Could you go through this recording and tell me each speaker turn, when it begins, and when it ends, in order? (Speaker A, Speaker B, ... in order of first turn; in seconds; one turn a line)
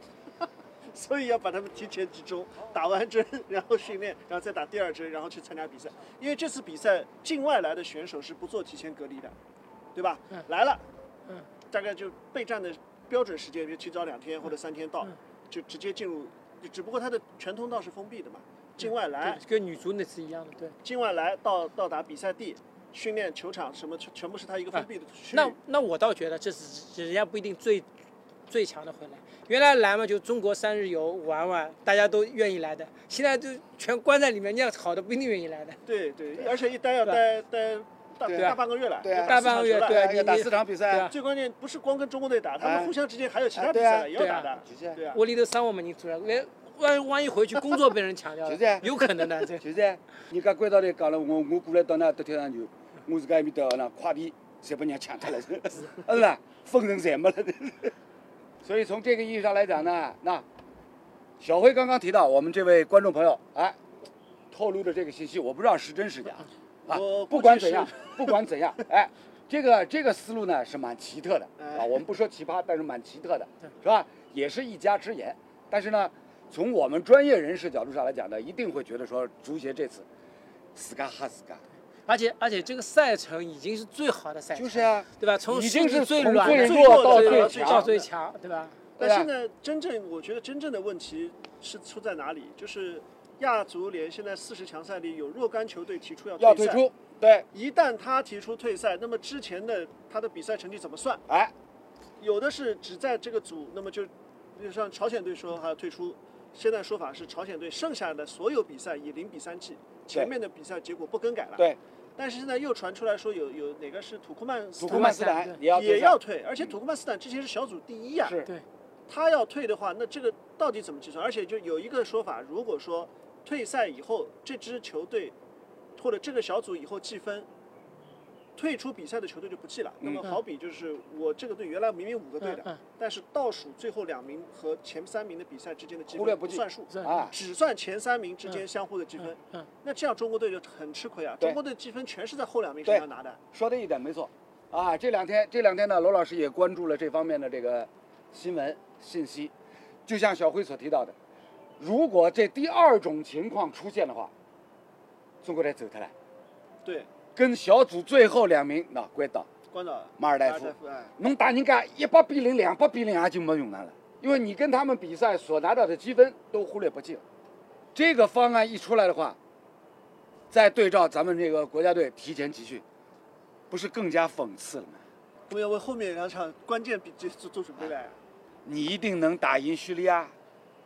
Speaker A: 0.9-9.3
Speaker A: 9.9-10.8
Speaker A: 11.7-19.4
Speaker B: 19.2-20.8
Speaker A: 20.8-25.6
Speaker B: 24.8-27.9
Speaker B: 28.5-35.8
Speaker A: 35.9-40.1
Speaker C: 38.3-41.1
Speaker B: 39.1-41.1
Speaker A: 41.0-45.2
Speaker C: 42.6-42.9
Speaker C: 43.6-44.1
Speaker B: 44.1-44.5
Speaker C: 44.6-45.0
Speaker B: 45.1-49.6
Speaker C: 48.4-48.9
Speaker C: 49.6-57.9
Speaker C: 58.6-60.4
Speaker C: 61.4-63.8
Speaker C: 64.5-80.1
Speaker A: 66.9-68.3
Speaker A: 71.6-72.0
Speaker C: 80.8-81.6
Speaker B: 82.1-88.8
Speaker C: 84.5-87.9
Speaker A: 86.3-88.1
Speaker C: 89.0-89.3
Speaker A: 89.0-96.8
Speaker C: 96.4-97.5
Speaker A: 97.5-101.2
Speaker C: 101.3-101.5
Speaker A: 102.2-111.7
Speaker A: 112.2-118.3
Speaker C: 114.8-116.2
Speaker B: 114.9-115.6
Speaker C: 118.2-118.5
Speaker A: 119.1-125.3
Speaker A: 126.0-127.5
Speaker A: 128.6-143.4
Speaker B: 132.4-132.8
Speaker C: 136.1-137.3
Speaker B: 136.9-137.2
Speaker C: 142.8-149.5
Speaker C: 150.1-151.1
Speaker C: 151.8-154.3
Speaker C: 155.4-156.1
Speaker A: 156.8-157.1
Speaker C: 157.3-159.5
Speaker A: 159.7-161.1
Speaker C: 160.2-167.2
Speaker C: 167.9-169.4
Speaker C: 170.5-172.8
Speaker C: 173.7-175.0
Speaker A: 175.5-178.2
Speaker C: 178.7-180.3